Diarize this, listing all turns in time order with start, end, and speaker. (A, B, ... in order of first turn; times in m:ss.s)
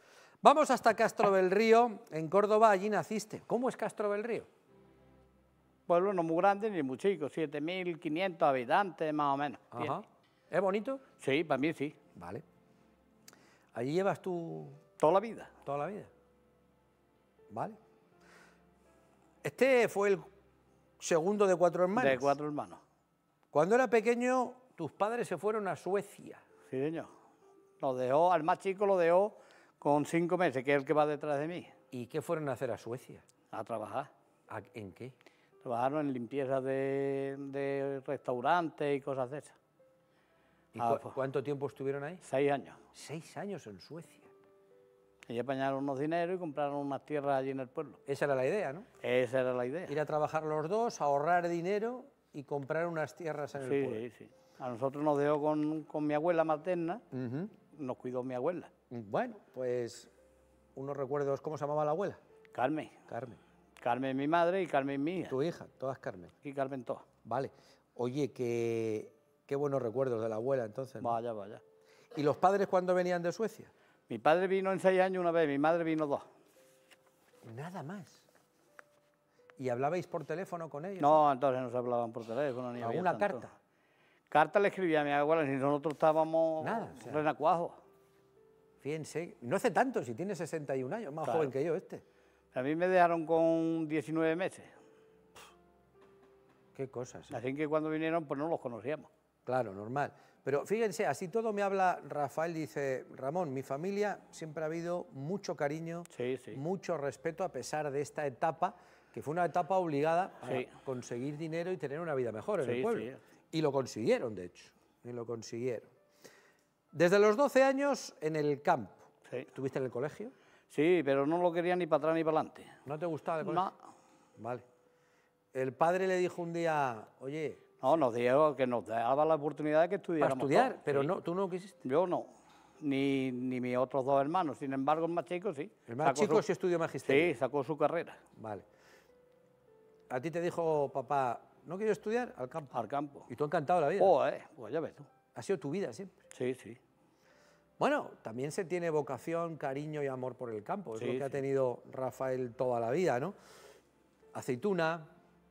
0:00.4-0:04.5 A
0:05.9-0:10.0 B
0:09.7-0:11.0 A
0:11.2-0:12.0 B
0:12.1-0:12.4 A
0:13.7-0:14.8 A
0:15.0-0:15.5 B
0:15.6-0:16.1 A
0:17.5-0:17.8 A
0:19.4-0:20.3 A
0:21.0-0:22.3 A
0:22.0-0:22.8 B
0:23.5-0:26.4 A
0:26.7-0:27.1 B
0:27.8-0:31.7 B
0:31.9-0:33.2 A
0:33.5-0:34.1 B
0:34.5-0:35.1 A
0:35.6-0:39.6 B
0:40.7-0:42.2 A
0:40.8-0:41.2 B
0:42.2-0:42.8 B
0:42.9-0:44.3 A
0:45.3-0:48.0 B
0:48.0-0:48.9 A
0:49.0-0:50.0 B
0:49.9-0:54.0 A
0:53.6-0:57.0 B
0:57.1-0:57.5 A
0:57.7-0:58.7 B
0:58.9-1:00.1 A
1:00.8-1:02.2 A
1:02.5-1:03.0 B
1:03.1-1:03.4 A
1:03.8-1:05.4 B
1:05.3-1:06.3 A
1:06.4-1:07.0 B
1:07.2-1:11.2 A
1:11.0-1:11.6 B
1:12.1-1:13.7 A
1:14.1-1:16.3 B
1:17.4-1:18.2 A
1:19.6-1:21.2 A
1:21.0-1:23.5 B
1:22.8-1:23.5 A
1:24.3-1:27.8 B
1:26.6-1:27.2 A
1:28.8-1:32.0 A
1:31.2-1:31.5 B
1:32.5-1:34.7 B
1:36.7-1:37.4 A
1:37.3-1:39.1 B
1:39.4-1:55.9 A
1:46.1-1:46.6 B
1:52.6-1:53.2 B
1:56.9-2:00.3 A
2:00.7-2:02.8 B
2:02.8-2:03.7 A
2:03.4-2:03.7 B
2:04.4-2:04.6 A
2:05.5-2:07.6 A
2:07.8-2:11.1 B
2:10.2-2:11.8 A
2:11.8-2:12.3 B
2:12.8-2:16.4 B
2:15.9-2:17.3 A
2:17.0-2:18.2 B
2:18.3-2:18.6 A
2:20.1-2:22.7 A
2:22.7-2:23.3 B
2:23.3-2:24.1 A
2:24.0-2:25.1 B
2:25.3-2:26.2 A
2:26.3-2:26.8 B
2:27.8-2:33.3 A
2:31.0-2:31.4 B
2:34.3-2:35.1 A